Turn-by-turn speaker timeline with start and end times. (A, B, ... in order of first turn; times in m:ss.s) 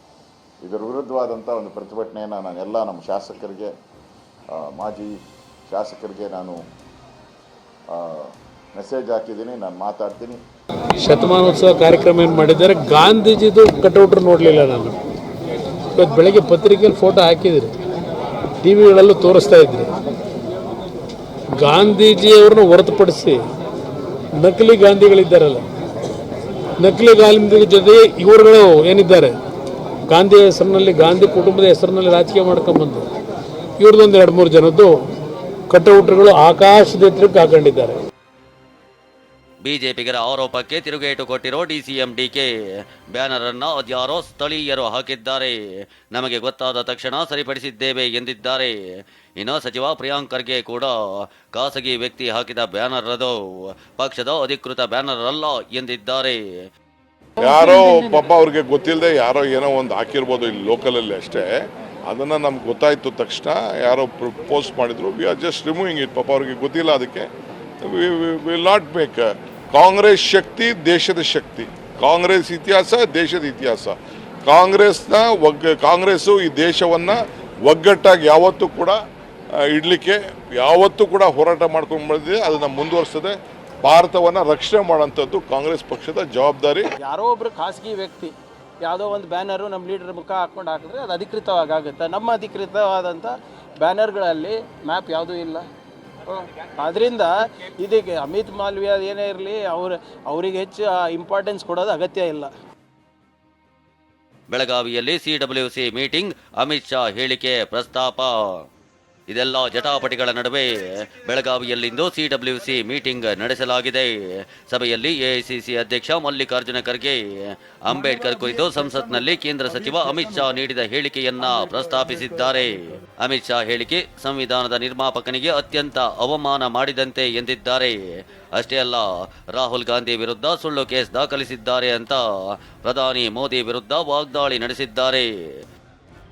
0:00.6-0:03.7 A
0:04.5-0:05.1 A
0:05.7-0:06.6 A
0:07.9-0:10.4 A
0:11.0-0:15.0 B
0:15.9-0:17.7 B
0:18.6-0:19.9 B
0:21.6-0:23.4 B
0:24.4-0:25.6 B
0:26.8-0:29.3 B
0:30.1-0:33.0 B
0:33.8-0:35.0 B
0:35.7-0:38.0 B
0:39.6-0:42.5 C
0:43.1-0:45.5 C
0:46.1-0:48.7 C
0:49.4-0:53.4 C
0:53.9-0:56.4 C
0:57.4-1:01.5 D
1:02.1-1:07.2 D
1:07.8-1:13.9 D
1:14.4-1:19.0 D
1:19.7-1:26.9 D
1:27.0-1:35.7 E
1:36.3-1:42.5 E
1:44.5-1:48.4 C
1:49.3-1:54.1 C
1:54.6-1:57.2 C
1:57.8-2:08.0 C
2:08.6-2:12.2 C
2:12.8-2:15.3 C